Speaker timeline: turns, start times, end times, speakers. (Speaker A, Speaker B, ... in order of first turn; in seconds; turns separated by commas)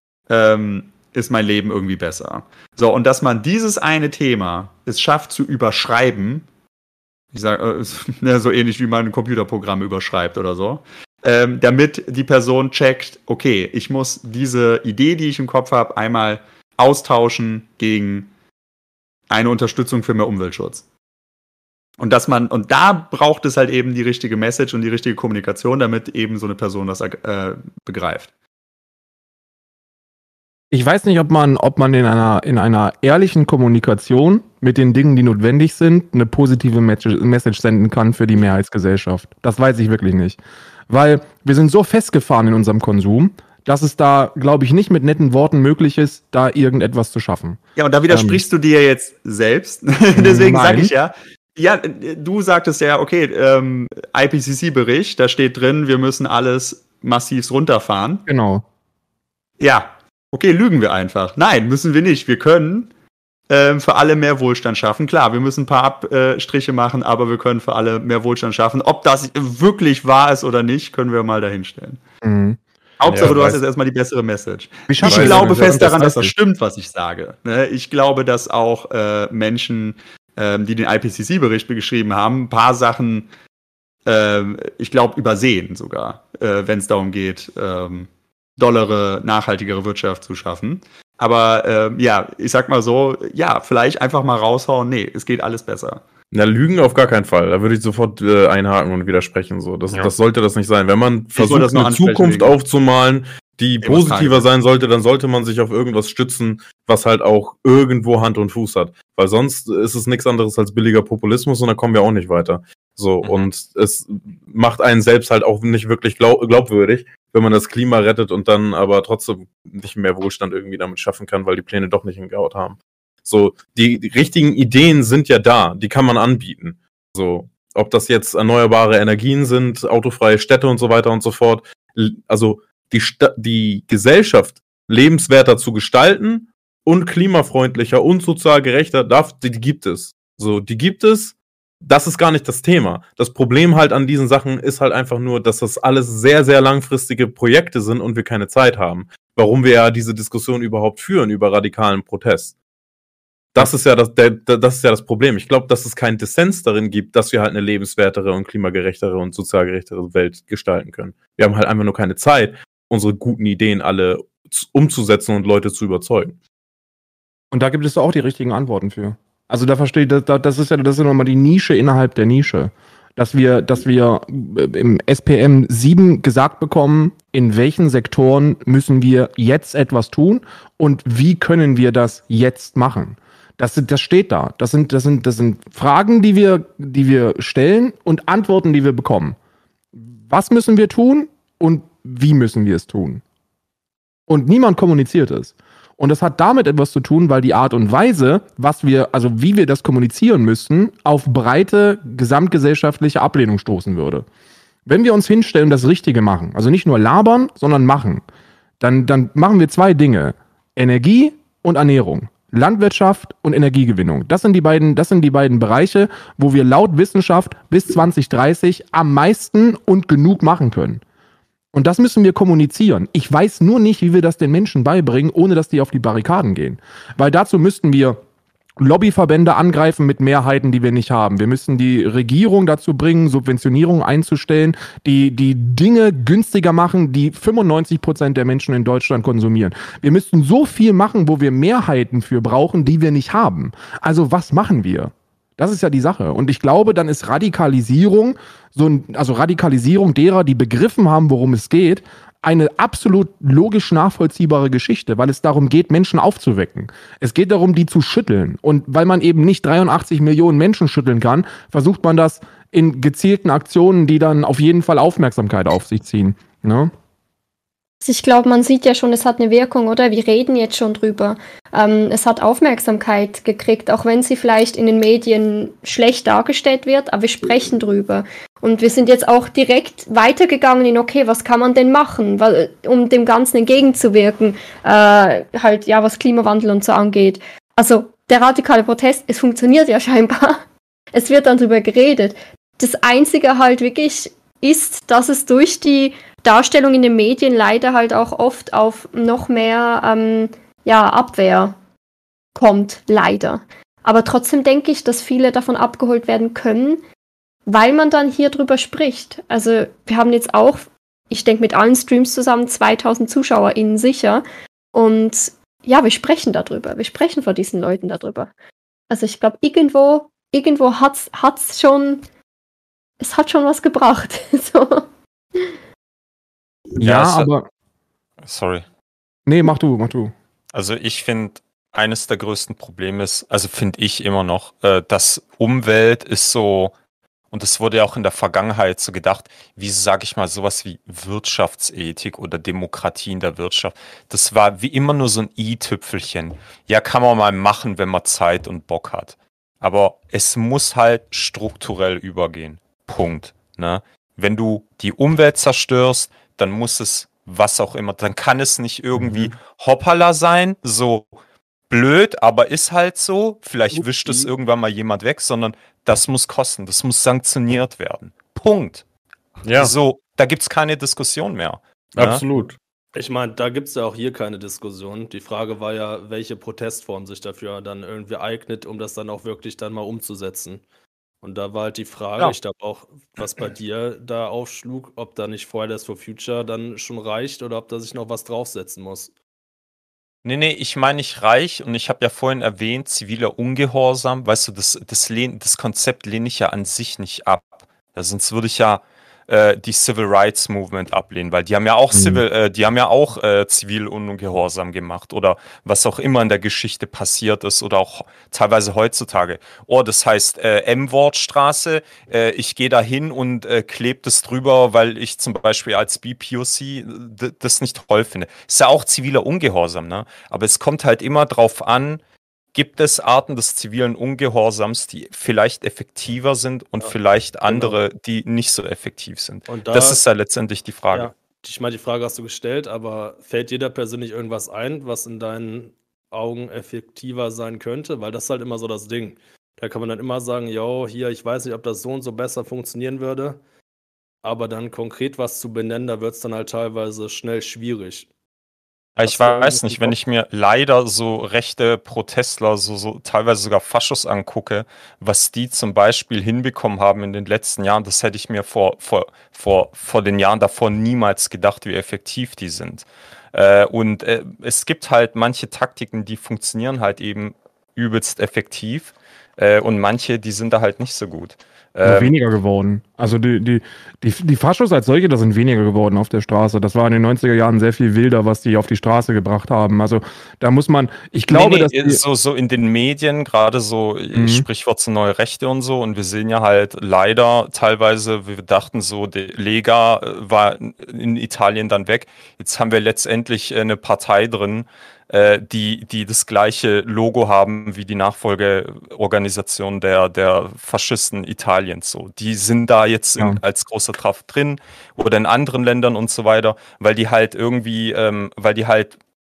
Speaker A: 0.3-6.5, Speaker A: 7.3-18.3, Speaker A: 19.3-20.8, Speaker A: 22.0-28.3, Speaker B: 30.7-48.4, Speaker A: 47.8-58.2, Speaker B: 50.2-50.9, Speaker B: 58.3-58.6, Speaker A: 59.6-62.9, Speaker A: 63.5-72.0, Speaker B: 72.2-72.6, Speaker A: 73.0-83.3, Speaker C: 73.0-73.6, Speaker B: 73.1-73.4, Speaker B: 74.9-76.3, Speaker C: 75.0-75.9, Speaker A: 84.1-96.0, Speaker C: 96.3-152.5, Speaker A: 101.3-102.6, Speaker A: 103.8-104.5, Speaker C: 153.5-166.4, Speaker B: 167.5-189.4, Speaker B: 189.9-193.2, Speaker B: 194.3-204.3, Speaker B: 204.9-208.2, Speaker B: 208.8-221.0, Speaker B: 221.7-228.2, Speaker B: 228.8-266.9, Speaker D: 268.0-290.6, Speaker D: 291.1-301.8, Speaker D: 302.6-307.0, Speaker D: 307.7-318.5, Speaker D: 319.1-322.2, Speaker D: 323.2-325.0, Speaker B: 327.0-327.7, Speaker E: 327.0-327.5, Speaker E: 328.4-328.9, Speaker B: 329.5-330.3, Speaker E: 330.7-336.9, Speaker E: 337.5-361.3, Speaker E: 361.9-369.0, Speaker C: 369.6-369.9, Speaker E: 369.8-372.4, Speaker C: 372.2-372.8, Speaker F: 373.1-380.8, Speaker F: 381.4-389.3, Speaker E: 390.4-422.2, Speaker B: 402.1-402.4, Speaker E: 422.8-431.3, Speaker F: 427.7-428.0, Speaker F: 429.7-430.2, Speaker F: 431.1-443.6, Speaker F: 444.4-448.3, Speaker E: 449.2-472.3, Speaker F: 449.2-450.2, Speaker B: 472.0-482.2, Speaker E: 481.5-509.2, Speaker B: 484.3-484.7